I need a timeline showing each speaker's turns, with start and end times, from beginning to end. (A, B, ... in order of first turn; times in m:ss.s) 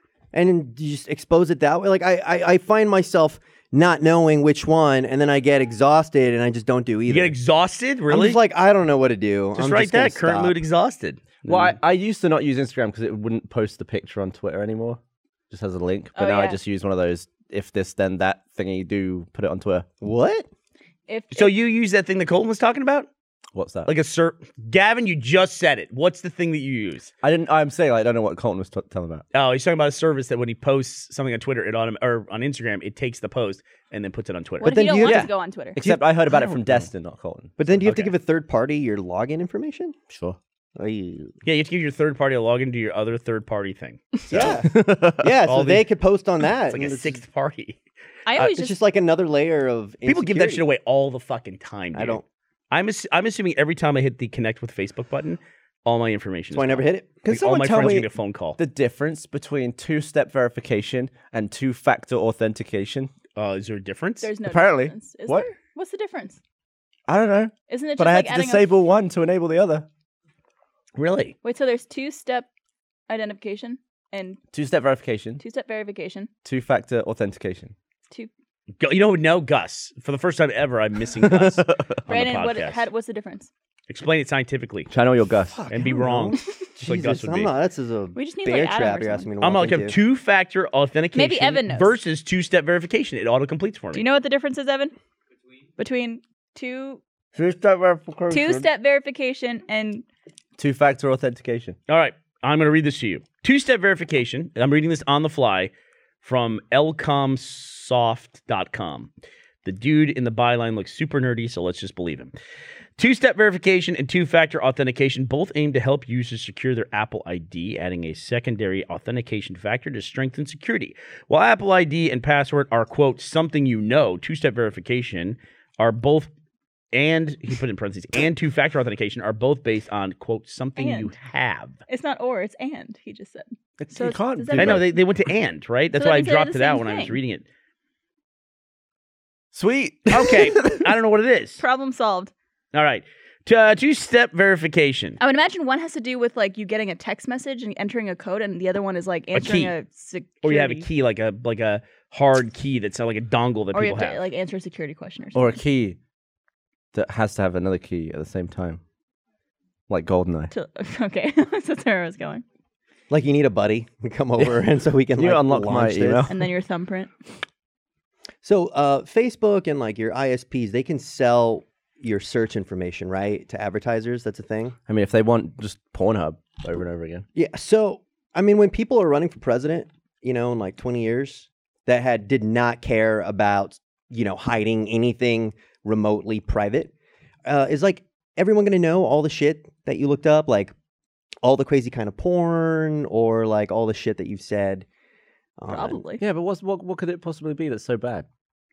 0:00.3-0:07.3 A
0:07.1-0:08.4 B
0:08.1-0:10.6 A
0:09.6-0:11.8 B
0:11.4-0:19.9 C
0:16.2-0:16.6 D
0:20.0-0:20.5 A
0:21.1-0:21.5 D
0:21.3-0:23.1 B
0:23.6-0:23.9 C
0:23.9-0:27.1 B
0:27.2-0:29.2 C
0:29.3-0:35.1 B
0:34.6-0:35.8 D
0:34.6-0:36.0 A
0:35.0-0:37.6 C
0:37.6-0:40.0 A
0:37.7-0:38.2 B
0:40.1-0:40.4 C
0:40.8-0:41.4 A
0:41.4-0:44.6 B
0:44.3-0:47.2 A
0:44.4-0:45.4 C
0:45.4-0:45.9 B
0:46.7-0:47.8 B
0:48.3-0:48.8 D
0:48.4-0:50.6 A
0:50.1-0:58.6 B
0:52.0-0:52.2 A
0:56.5-0:57.2 A
0:57.2-1:03.1 C
1:03.4-1:04.3 B
1:04.2-1:06.4 D
1:04.4-1:05.5 C
1:07.1-1:09.9 C
1:07.7-1:08.7 D
1:11.0-1:11.4 B
1:11.4-1:12.5 D
1:13.1-1:14.4 D
1:14.5-1:15.4 C
1:15.4-1:16.3 D
1:16.4-1:17.7 C
1:18.8-1:22.9 B
1:21.2-1:22.0 C
1:22.1-1:23.5 D
1:23.9-1:24.9 B
1:24.9-1:25.6 C
1:25.6-1:30.0 A
1:25.7-1:27.5 B
1:28.1-1:29.3 D
1:29.4-1:34.0 B
1:31.2-1:32.0 D
1:33.9-1:34.9 D
1:35.8-1:37.0 D
1:37.3-1:38.7 C
1:38.3-1:40.0 D
1:40.6-1:41.8 C
1:41.9-1:49.1 B
1:49.6-1:52.3 B
1:53.0-2:06.3 B
2:06.9-2:11.8 B
2:10.8-2:11.1 D
2:11.9-2:14.9 D
2:13.8-2:14.9 C
2:14.6-2:17.4 B
2:16.0-2:17.2 D
2:19.5-2:20.9 C
2:20.1-2:21.6 B
2:21.6-2:22.3 D
2:22.7-2:25.2 B
2:25.2-2:30.9 D
2:29.3-2:29.7 B
2:30.4-2:34.2 B
2:33.7-2:35.6 D
2:35.3-2:36.0 C
2:36.9-2:38.8 C
2:39.9-2:40.5 C
2:40.5-2:42.4 D
2:43.1-2:46.3 A
2:44.4-2:44.6 C
2:45.2-2:46.3 C
2:46.3-2:47.1 D
2:48.4-2:54.8 A
2:54.9-2:57.3 C
2:57.4-3:06.9 A
3:07.5-3:10.7 A
3:11.4-3:14.9 A
3:15.6-3:16.0 A
3:15.7-3:16.2 D
3:16.2-3:18.3 C